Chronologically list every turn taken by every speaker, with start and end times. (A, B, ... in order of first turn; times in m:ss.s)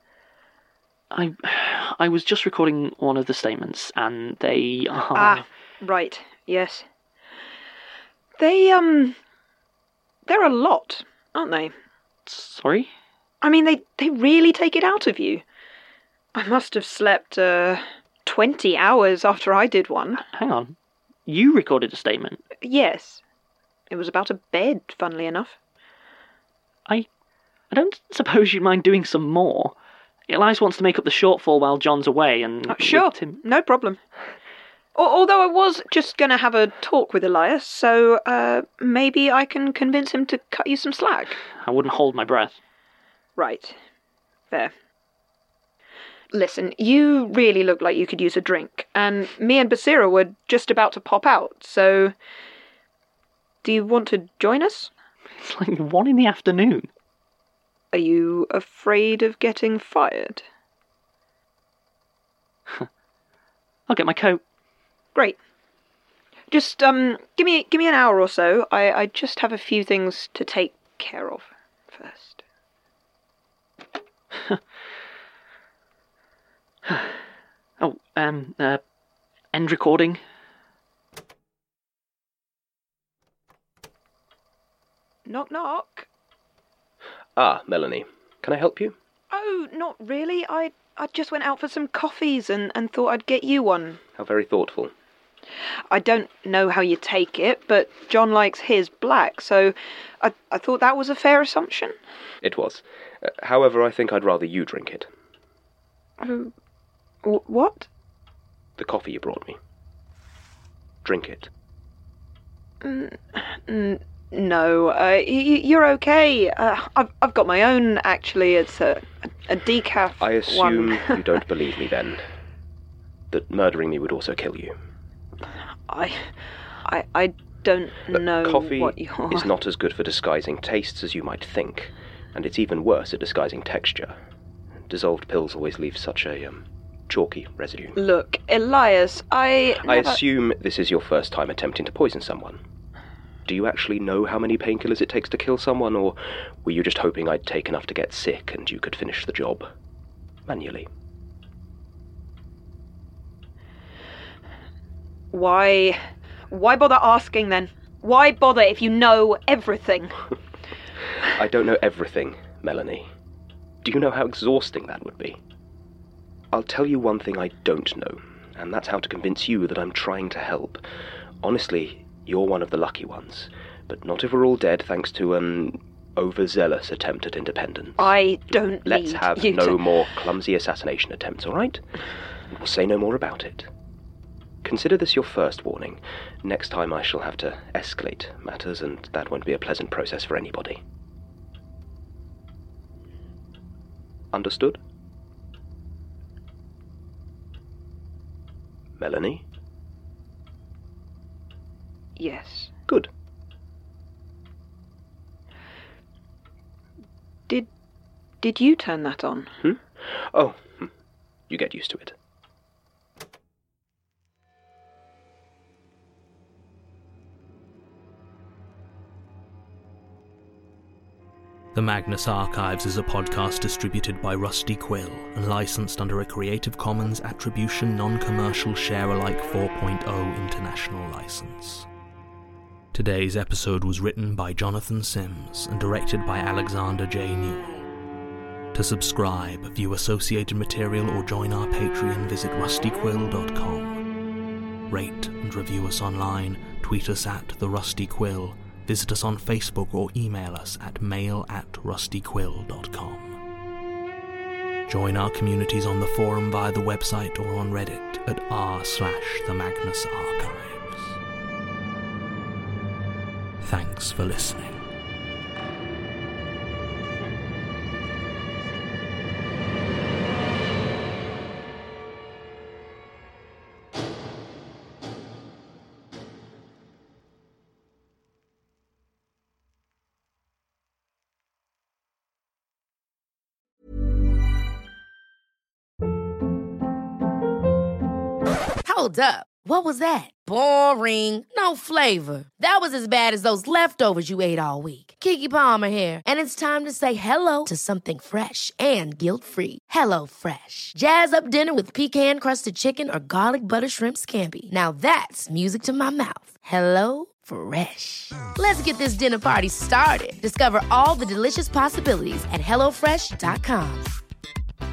0:01.1-0:05.4 A
0:05.1-0:06.8 B
0:08.4-0:09.2 B
0:10.2-0:11.7 B
0:12.2-0:12.9 A
0:13.4-0:15.4 B
0:16.3-0:20.2 B
0:20.2-0:22.4 A
0:22.6-0:23.2 B
0:23.9-0:25.6 B
0:27.7-0:29.7 A
0:30.3-0:33.4 A
0:32.7-0:34.0 B
0:34.9-0:41.4 B
0:41.6-0:42.6 A
0:43.4-0:43.8 B
0:46.3-0:52.1 B
0:53.6-0:54.9 B
0:55.4-0:56.9 A
0:57.9-1:00.4 B
1:03.9-1:04.4 A
1:06.5-1:12.4 B
1:16.9-1:17.2 A
1:17.8-1:18.8 A
1:19.5-1:20.2 A
1:25.2-1:26.1 B
1:27.4-1:29.0 C
1:29.3-1:34.0 B
1:34.1-1:34.9 C
1:35.9-1:42.0 B
1:42.4-1:45.1 C
1:46.2-1:46.5 B
1:47.2-1:47.9 B
1:48.8-1:49.6 C
1:51.0-1:51.5 C
1:52.8-2:01.2 B
2:00.2-2:02.2 C
2:03.3-2:04.7 C
2:05.9-2:06.3 B
2:06.8-2:09.5 B
2:08.1-2:14.2 C
2:14.9-2:18.0 C
2:18.0-2:20.2 B
2:19.8-2:22.6 C
2:23.4-2:29.7 C
2:30.5-2:30.9 C
2:35.3-2:36.0 B
2:36.5-2:40.2 B
2:41.3-2:43.1 C
2:43.8-2:45.4 C
2:46.5-2:50.8 C
2:51.4-3:03.7 C
2:58.0-2:59.8 B
3:04.6-3:10.8 C
3:14.3-3:14.8 C
3:19.0-3:19.4 C
3:22.2-3:22.7 B
3:28.4-3:29.5 B
3:29.6-3:30.9 C
3:31.5-3:32.2 C
3:41.7-3:51.9 D
3:52.9-3:57.8 D
3:58.7-4:04.0 D
4:04.9-4:13.4 D
4:14.9-4:21.2 D
4:23.6-4:24.8 D
4:48.8-5:14.1 E